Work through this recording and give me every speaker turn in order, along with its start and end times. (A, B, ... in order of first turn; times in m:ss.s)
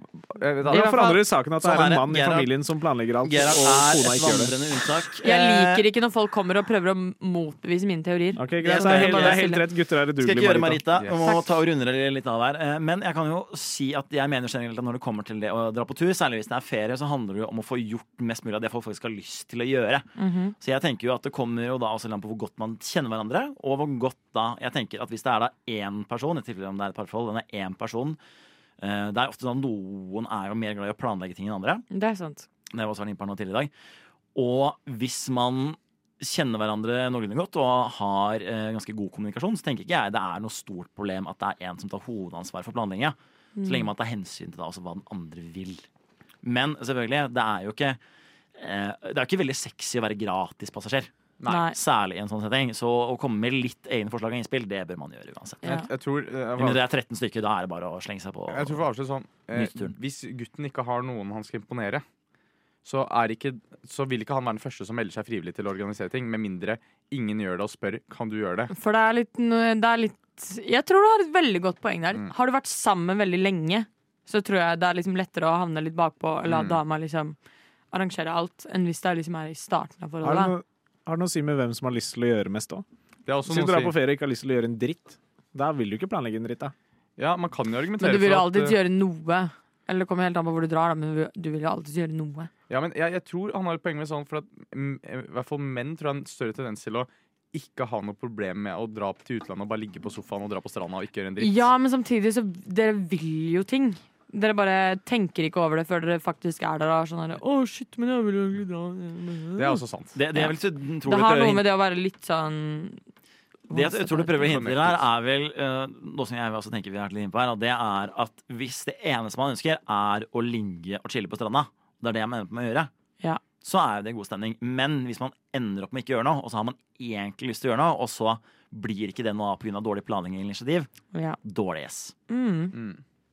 0:00.3-0:01.2 A
0:00.6-0:04.5 B
0:00.7-0:01.3 C
0:01.6-0:02.5 D
0:03.2-0:05.8 D
0:05.2-0:09.6 C
0:08.4-0:10.8 B
0:08.6-0:09.6 D
0:10.2-0:28.2 D
0:11.0-0:11.2 A
0:20.2-0:20.5 C
0:28.8-0:31.9 D
0:31.9-0:32.5 C
0:32.7-0:33.7 D
0:34.4-0:45.8 D
0:43.6-0:43.9 C
0:46.4-0:48.0 D
0:48.6-0:51.1 D
0:51.5-0:51.8 C
0:51.7-0:55.7 D
0:55.6-0:55.9 C
0:55.6-0:56.8 A
0:56.6-0:58.8 D
0:58.5-1:02.0 A
0:59.5-0:59.9 D
1:02.8-1:08.7 A
1:08.7-1:17.4 C
1:16.5-1:16.8 A
1:17.9-1:20.5 C
1:20.2-1:22.8 B
1:23.3-1:24.0 A
1:23.5-1:26.7 B
1:27.2-1:28.8 A
1:28.0-1:32.5 C
1:32.7-1:41.7 A
1:41.4-1:49.8 C
1:49.6-1:50.1 A
1:50.2-1:51.7 D
1:50.3-1:53.0 C
1:53.7-1:54.4 C
1:53.7-2:02.9 D
1:54.4-1:55.1 A
2:03.6-2:10.9 D
2:11.1-2:11.4 C
2:11.4-2:12.2 D
2:12.3-2:12.8 C
2:12.7-2:13.0 A